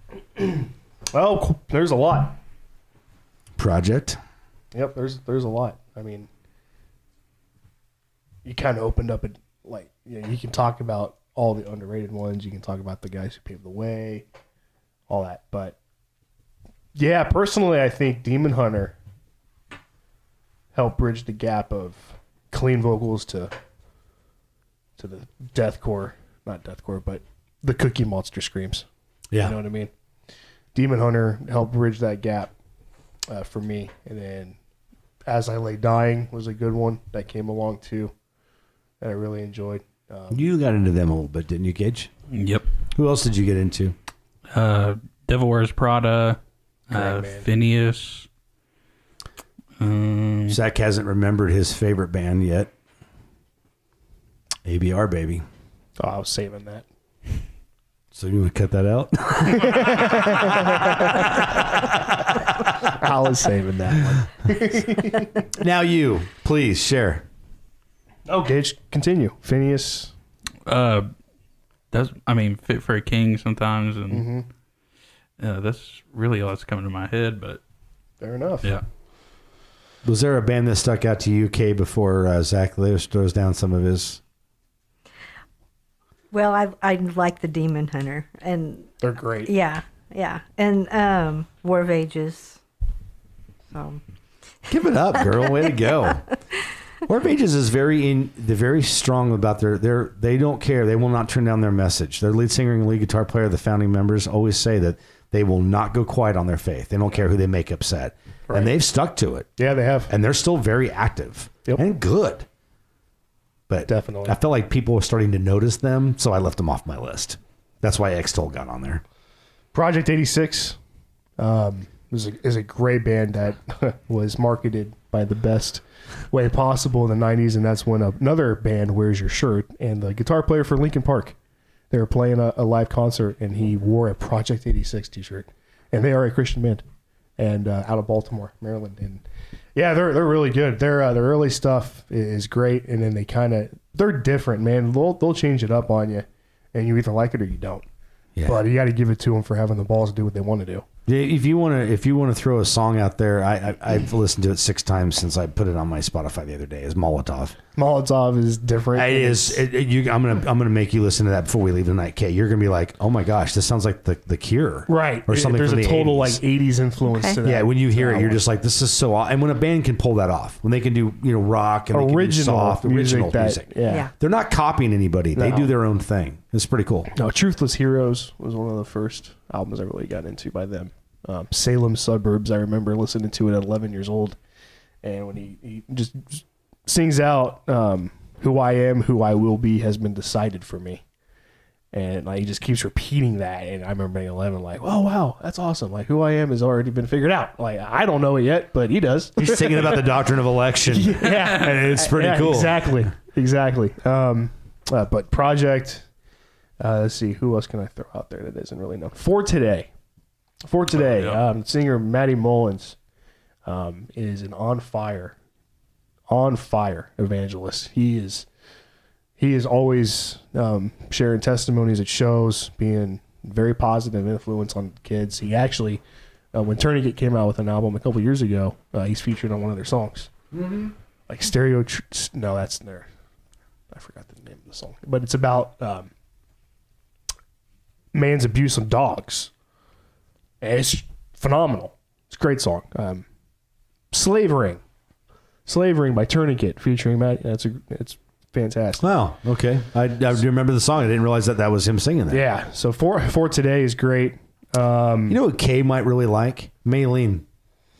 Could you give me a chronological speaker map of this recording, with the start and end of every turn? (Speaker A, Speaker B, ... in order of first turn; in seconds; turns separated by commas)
Speaker A: 0.4-2.4, Speaker B: 3.6-4.2, Speaker A: 4.7-6.3, Speaker A: 8.4-14.2, Speaker A: 15.1-15.8, Speaker A: 16.9-18.9, Speaker A: 20.7-23.5, Speaker A: 25.0-28.9, Speaker A: 29.4-29.9, Speaker A: 30.7-32.5, Speaker A: 33.3-34.5, Speaker A: 35.3-38.1, Speaker A: 39.0-40.4, Speaker B: 40.3-42.1, Speaker C: 42.3-42.6, Speaker B: 42.9-44.0, Speaker C: 44.5-46.4, Speaker C: 46.9-48.3, Speaker A: 46.9-47.5, Speaker C: 49.8-50.6, Speaker B: 50.5-52.7, Speaker B: 54.6-55.4, Speaker A: 56.0-56.9, Speaker B: 58.1-62.6, Speaker A: 59.5-61.3, Speaker A: 62.8-65.3, Speaker B: 65.5-67.2, Speaker A: 68.3-70.1, Speaker C: 70.7-71.1, Speaker C: 71.9-74.2, Speaker A: 74.1-74.5, Speaker C: 75.4-77.6, Speaker A: 78.2-78.7, Speaker B: 80.0-84.2, Speaker D: 86.3-92.6, Speaker A: 89.0-89.5, Speaker D: 93.7-94.0, Speaker B: 94.7-96.3, Speaker B: 97.0-109.5, Speaker A: 109.6-110.1, Speaker B: 110.1-112.5, Speaker B: 113.7-119.0, Speaker A: 113.9-114.3, Speaker A: 119.7-120.8, Speaker A: 121.4-131.3, Speaker A: 131.9-136.8, Speaker A: 137.4-139.2, Speaker A: 139.7-147.8, Speaker A: 148.4-150.8, Speaker B: 151.1-157.6, Speaker A: 157.8-159.6, Speaker B: 158.9-166.4, Speaker A: 164.9-168.4, Speaker D: 167.0-167.3, Speaker B: 167.4-177.1, Speaker A: 171.9-174.0, Speaker A: 175.3-175.7, Speaker A: 177.1-184.4, Speaker A: 185.0-191.0, Speaker A: 191.9-200.1, Speaker B: 199.4-203.0, Speaker A: 200.8-206.1, Speaker A: 206.8-209.9, Speaker A: 210.7-213.0, Speaker C: 210.9-211.4, Speaker A: 213.6-215.3, Speaker A: 216.3-218.5, Speaker A: 219.4-226.0, Speaker A: 226.5-230.3, Speaker B: 230.5-230.9, Speaker A: 231.3-233.1, Speaker A: 233.9-236.1, Speaker A: 238.1-239.5, Speaker A: 240.6-243.2, Speaker A: 244.1-244.8, Speaker A: 245.7-249.0, Speaker B: 249.0-252.4, Speaker A: 252.3-255.4, Speaker B: 255.3-257.4